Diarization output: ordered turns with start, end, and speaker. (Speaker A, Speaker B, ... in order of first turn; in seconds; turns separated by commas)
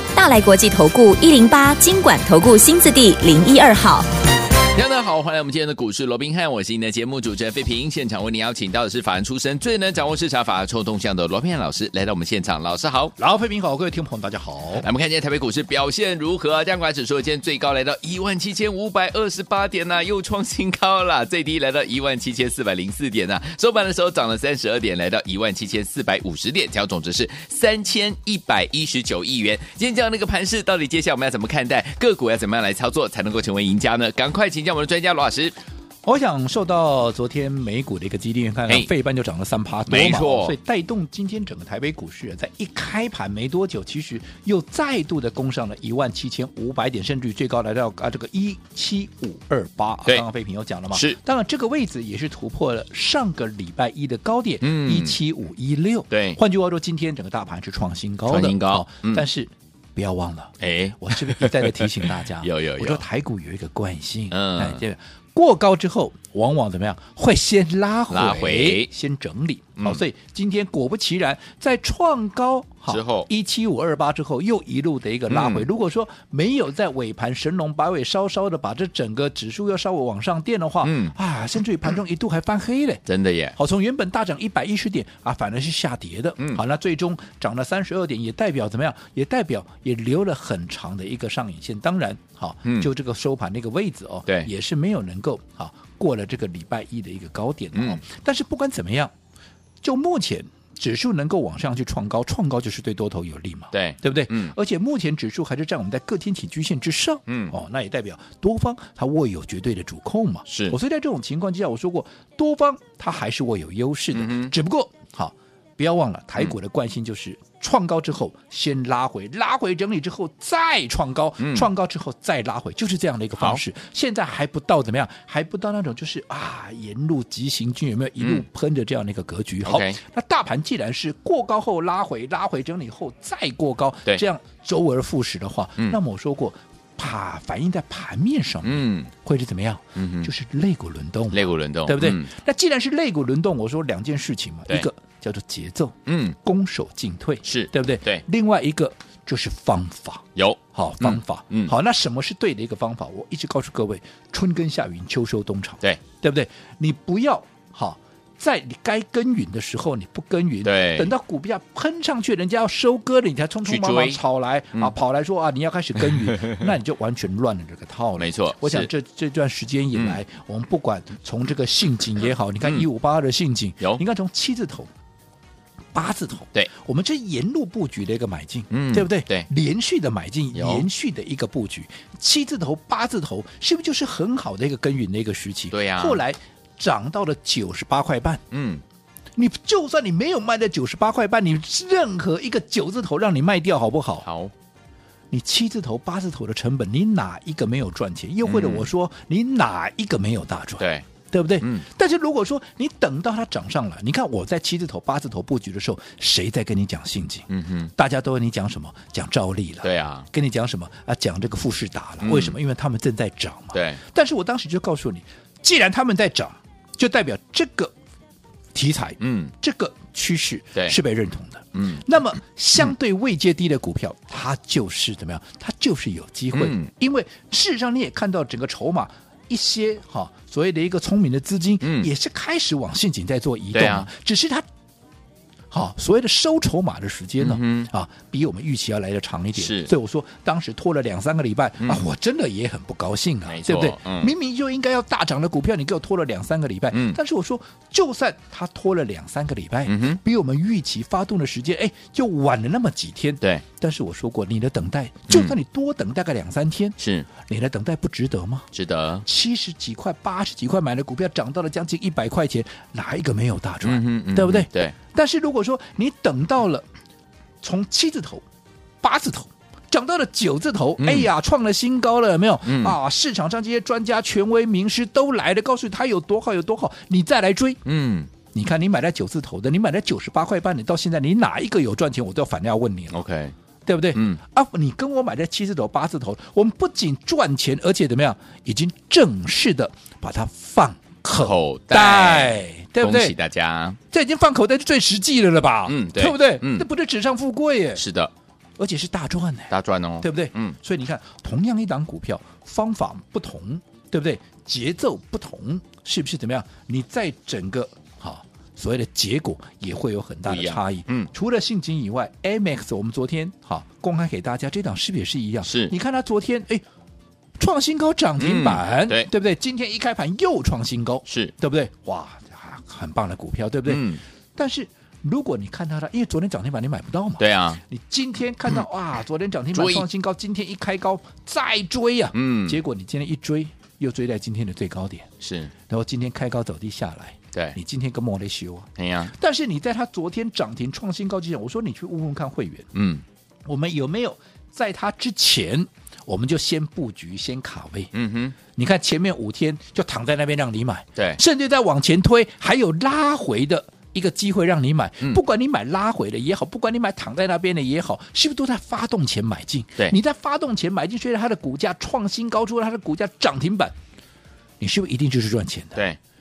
Speaker A: 0.1-4.1, Speaker B: 4.7-13.1, Speaker C: 13.2-14.8, Speaker B: 14.8-35.5, Speaker C: 36.0-83.0, Speaker B: 39.9-40.5, Speaker B: 50.9-51.2, Speaker B: 54.6-55.2, Speaker B: 56.1-56.4, Speaker B: 58.3-59.2, Speaker B: 60.6-63.0, Speaker B: 64.3-64.8, Speaker B: 68.1-68.9, Speaker B: 72.9-73.3, Speaker B: 75.3-75.7, Speaker B: 80.8-81.1, Speaker B: 83.1-83.5, Speaker C: 83.5-99.1, Speaker B: 97.7-98.0, Speaker C: 99.8-174.9, Speaker B: 103.7-104.5, Speaker B: 107.3-107.5, Speaker B: 110.5-110.8, Speaker B: 114.1-114.5, Speaker B: 121.4-121.7, Speaker B: 123.4-123.6, Speaker B: 128.2-128.4, Speaker B: 129.6-130.0, Speaker B: 138.6-139.1, Speaker B: 139.9-140.3, Speaker B: 141.3-142.3, Speaker B: 146.1-146.3, Speaker B: 147.4-148.2, Speaker B: 150.3-151.7, Speaker B: 160.6-161.1, Speaker B: 163.6-164.2, Speaker B: 166.1-166.6, Speaker B: 168.2-168.9, Speaker B: 169.9-170.2, Speaker C: 175.9-188.4, Speaker B: 178.7-179.5, Speaker B: 180.5-180.8, Speaker B: 185.7-186.2, Speaker B: 188.5-188.8, Speaker C: 189.3-194.2, Speaker B: 194.2-194.5, Speaker C: 195.3-217.9, Speaker B: 198.4-198.9, Speaker B: 200.8-201.1, Speaker B: 201.6-201.8, Speaker B: 207.5-207.9, Speaker B: 209.8-210.3, Speaker B: 212.2-212.6, Speaker B: 213.7-214.0, Speaker C: 218.7-234.6, Speaker B: 219.2-219.5, Speaker B: 221.7-222.0, Speaker B: 226.5-226.9, Speaker B: 231.8-232.1, Speaker B: 233.7-234.1, Speaker C: 235.7-258.7, Speaker B: 237.4-237.9, Speaker B: 239.6-239.9, Speaker B: 243.4-244.3, Speaker B: 246.9-247.2, Speaker B: 249.9-250.2, Speaker B: 255.3-255.5, Speaker B: 257.0-257.3, Speaker B: 258.7-259.2, Speaker C: 259.2-266.8, Speaker B: 263.8-264.9, Speaker C: 267.6-268.4, Speaker C: 269.0-277.8, Speaker B: 271.0-271.3, Speaker B: 272.6-273.0, Speaker B: 277.8-278.3, Speaker C: 278.5-283.2, Speaker B: 283.1-283.5, Speaker C: 283.9-293.3, Speaker B: 284.1-284.4, Speaker B: 291.4-294.0, Speaker C: 294.1-298.0, Speaker B: 295.9-296.9, Speaker B: 298.0-298.3, Speaker C: 298.8-316.8, Speaker B: 299.7-300.8, Speaker B: 310.4-311.3, Speaker B: 315.6-315.9, Speaker C: 317.6-335.3, Speaker B: 318.4-319.3, Speaker B: 321.2-321.5, Speaker B: 323.9-324.2, Speaker B: 327.4-327.8, Speaker B: 329.7-330.1, Speaker B: 332.3-332.8, Speaker B: 335.4-335.7, Speaker C: 335.9-342.9, Speaker B: 339.0-339.3, Speaker B: 342.9-343.2, Speaker C: 343.6-348.1, Speaker B: 348.1-348.6, Speaker C: 348.7-363.9, Speaker C: 364.8-366.0